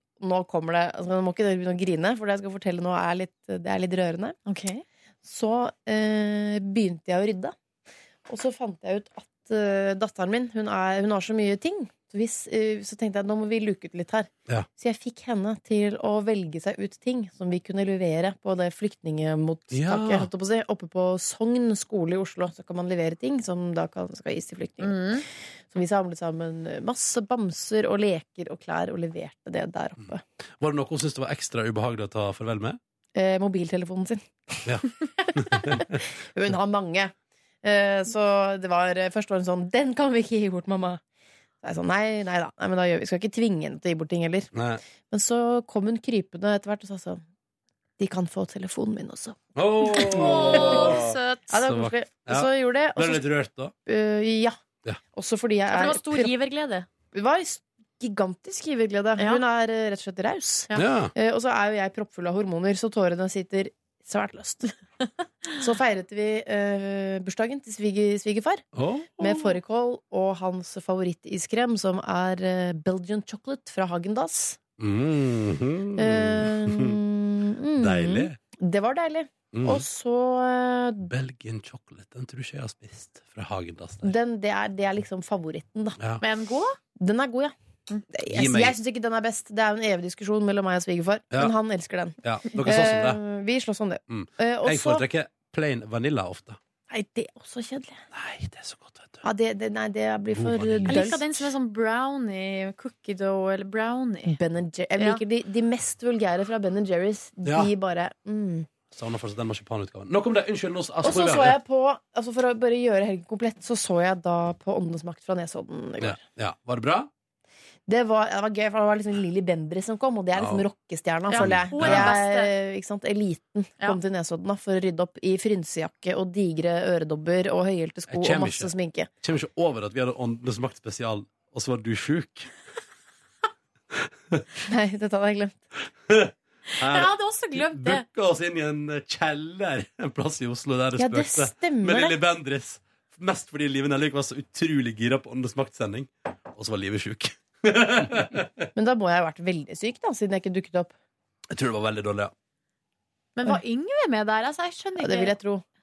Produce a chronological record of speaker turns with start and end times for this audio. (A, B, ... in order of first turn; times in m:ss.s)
0:00.2-0:04.4 A
0:04.5-0:04.8 B
0:05.2-0:07.5 A
0:08.3-0:30.2 A
0:19.7-0:20.3 C
0:24.8-0:25.2 B
0:30.0-0:32.8 C
0:33.2-0:34.7 A
0:34.6-0:36.0 C
0:35.6-0:41.0 A
0:41.6-0:44.5 A
0:44.5-0:44.8 C
0:45.1-0:47.2 A
0:48.0-0:49.4 A
0:49.6-0:53.7 C
0:49.8-0:51.5 B
0:50.0-0:53.3 A
0:53.8-0:54.6 A
0:55.1-0:56.3 A
0:55.7-0:56.9 B
0:57.1-1:04.8 A
1:00.8-1:01.1 C
1:05.5-1:08.6 A
1:08.7-1:09.3 C
1:09.2-1:14.6 A
1:14.8-1:17.0 C
1:16.0-1:21.1 A
1:17.8-1:18.4 C
1:19.5-1:19.9 C
1:21.0-1:24.1 C
1:24.0-1:26.0 A
1:26.0-1:26.2 C
1:26.2-1:26.8 B
1:27.0-1:27.5 A
1:28.1-1:35.0 A
1:28.3-1:28.8 C
1:32.2-1:33.2 C
1:34.1-1:36.6 C
1:36.9-1:38.0 A
1:38.1-1:39.2 C
1:39.2-1:41.5 A
1:40.3-1:41.2 C
1:40.9-1:44.4 B
1:44.3-1:48.7 A
1:47.4-1:47.7 C
1:48.9-1:51.6 C
1:51.0-1:56.2 A
1:56.0-1:57.1 C
1:57.9-2:09.1 A
2:00.4-2:00.6 C
2:01.3-2:02.5 B
2:01.4-2:02.2 C
2:08.1-2:12.5 C
2:14.7-2:15.6 A
2:16.1-2:28.7 C
2:16.7-2:18.0 B
2:21.0-2:22.2 A
2:28.8-2:30.9 A
2:31.5-2:32.3 C
2:33.4-2:35.3 B
2:35.0-2:35.6 A